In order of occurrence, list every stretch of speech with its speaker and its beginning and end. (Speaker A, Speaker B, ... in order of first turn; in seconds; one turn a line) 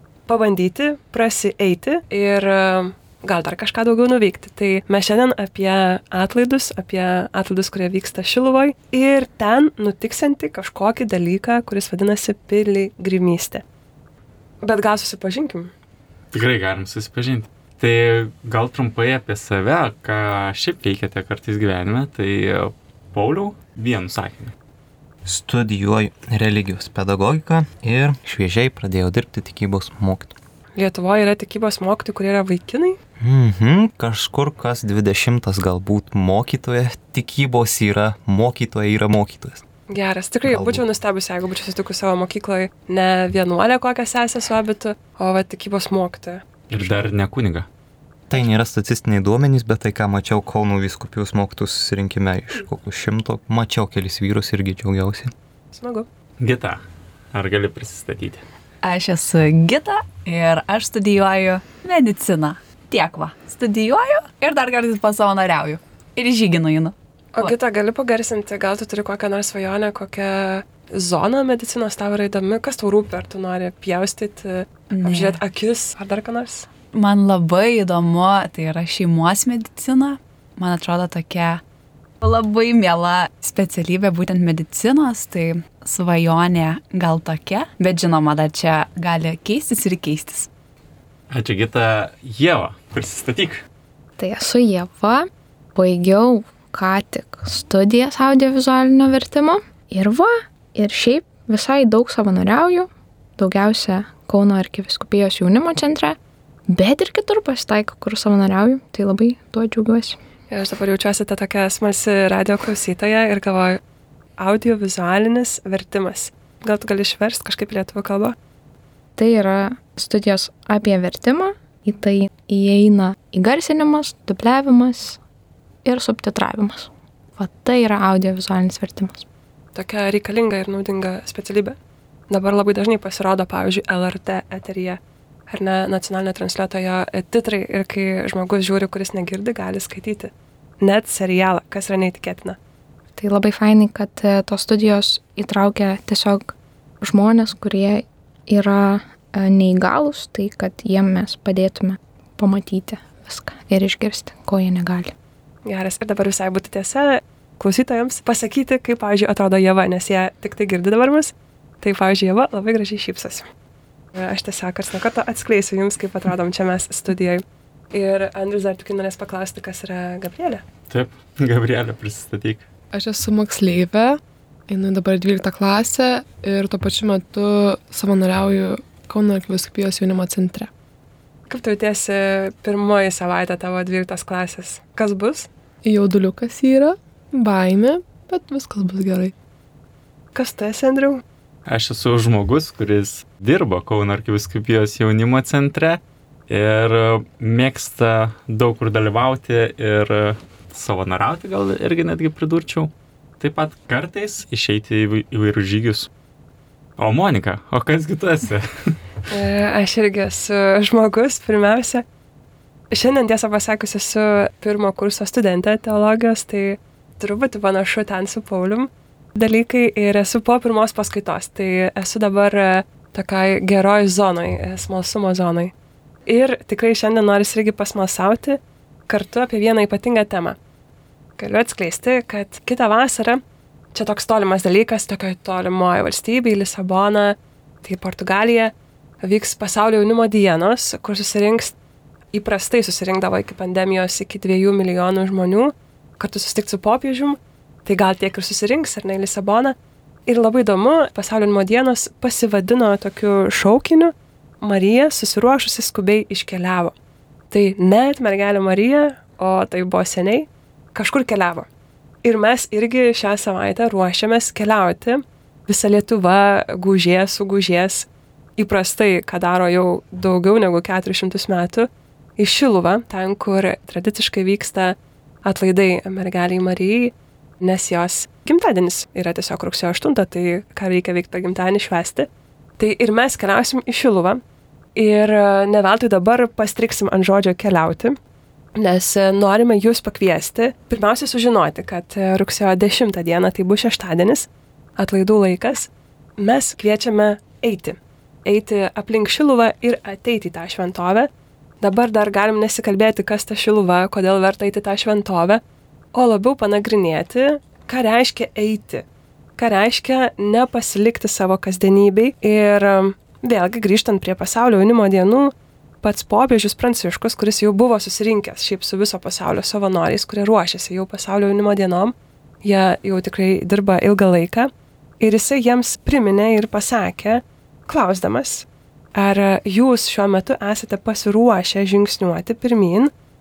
Speaker A: 0.3-13.6
Speaker A: 14.6-15.7
Speaker B: 16.3-24.5
Speaker C: 25.2-30.4
Speaker A: 30.8-33.0
Speaker C: 33.2-39.6
Speaker A: 39.9-46.4
Speaker C: 40.4-40.8
Speaker B: 46.7-47.7
Speaker C: 48.3-55.3
Speaker A: 55.7-56.1
Speaker B: 56.4-56.8
Speaker B: 57.3-58.4
Speaker D: 58.8-67.5
Speaker A: 67.3-76.7
Speaker D: 74.9-75.4
Speaker D: 76.9-81.6
Speaker D: 82.2-90.5
Speaker B: 91.3-93.6
Speaker E: 94.2-106.2
Speaker E: 106.7-110.2
Speaker A: 110.5-113.8
Speaker A: 114.4-118.3
Speaker E: 119.2-125.2
Speaker E: 125.8-129.2
Speaker A: 129.7-131.8
Speaker A: 132.3-135.0
Speaker A: 135.5-142.6
Speaker E: 143.2-155.1
Speaker A: 155.7-163.5
Speaker A: 164.1-170.6
Speaker B: 170.9-172.7
Speaker F: 172.9-180.7
Speaker A: 181.5-185.5
Speaker F: 185.8-189.3
Speaker A: 190.3-191.2
Speaker B: 191.7-206.1
Speaker B: 207.0-208.9
Speaker A: 209.3-212.0
Speaker A: 212.9-225.7
Speaker A: 226.3-230.6
Speaker A: 231.4-233.4
Speaker A: 233.9-238.7
Speaker A: 239.2-241.7
Speaker A: 242.3-249.8
Speaker A: 250.3-256.9
Speaker A: 257.5-261.7
Speaker A: 262.2-282.3
Speaker A: 282.8-284.4
Speaker A: 284.9-288.2
Speaker A: 288.8-301.3
Speaker A: 301.8-305.6
Speaker A: 306.1-309.0
Speaker A: 309.6-315.5
Speaker A: 316.0-324.7
Speaker A: 325.2-333.1